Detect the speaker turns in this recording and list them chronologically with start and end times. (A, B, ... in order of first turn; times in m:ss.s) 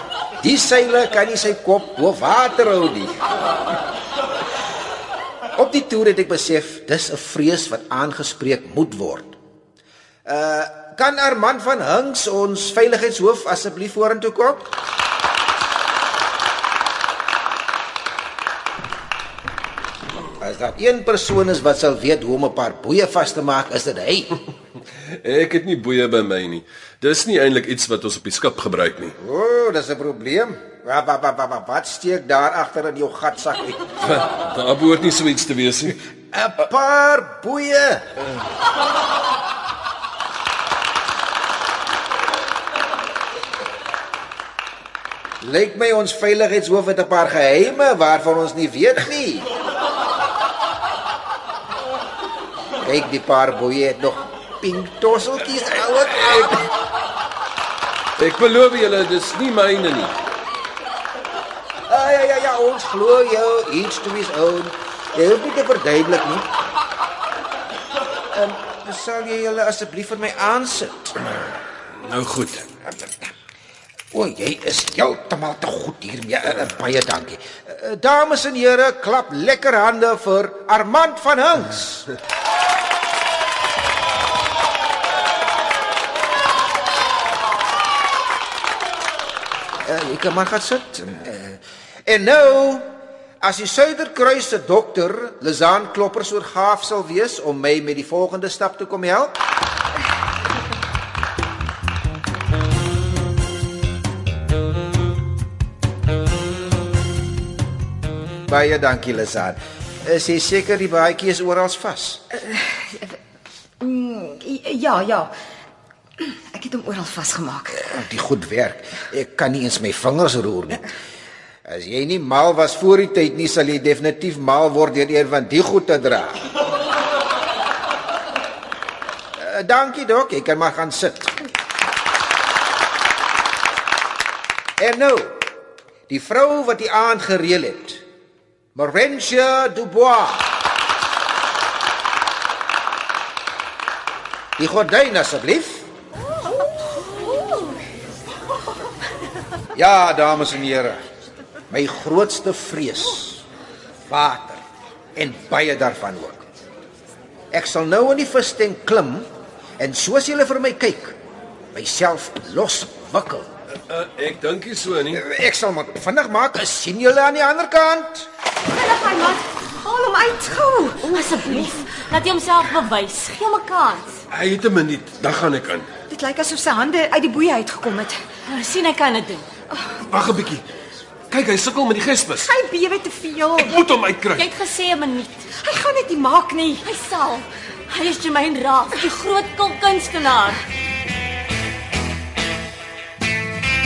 0:00.4-0:03.2 A
0:05.5-0:09.4 A
0:10.2-0:14.7 A
0:20.4-0:24.4 A
0:25.2-0:29.1 B
0:29.2-0:33.8 A
0:34.0-0:36.0 B
0:36.3-0:38.1 A
0:45.4-0:49.5 A
0:52.8-0:56.7 A
0:58.2-1:00.1 B
1:01.9-1:06.4 A
1:08.3-1:11.2 A
1:12.0-1:12.7 B
1:12.9-1:13.2 A
1:14.1-1:22.1 A
1:29.8-1:39.4 A
1:48.5-1:52.2 A
1:52.4-1:53.2 C
1:53.8-1:55.3 C
1:56.2-1:57.8 C
1:57.7-2:00.9 A
2:01.6-2:06.4 A
2:09.4-2:11.4 A
2:14.8-2:15.4 A
2:16.1-2:18.0 A
2:18.7-2:20.6 A
2:24.6-2:25.9 A
2:29.7-2:31.0 A
2:31.7-2:33.4 A
2:34.1-2:34.6 A
2:35.2-2:36.4 A
2:37.5-2:41.2 A
2:41.7-2:43.5 A
2:43.9-2:45.2 B
2:45.1-2:48.3 A
2:48.7-2:51.7 C
2:51.0-2:54.0 D
2:53.8-2:54.1 C
2:54.3-2:55.9 B
2:56.1-2:58.2 C
2:58.4-2:59.5 D
3:00.0-3:00.6 B
3:01.3-3:02.5 B
3:02.4-3:03.8 C
3:03.6-3:04.5 B
3:04.3-3:05.5 D
3:05.6-3:06.8 C
3:06.8-3:10.6 D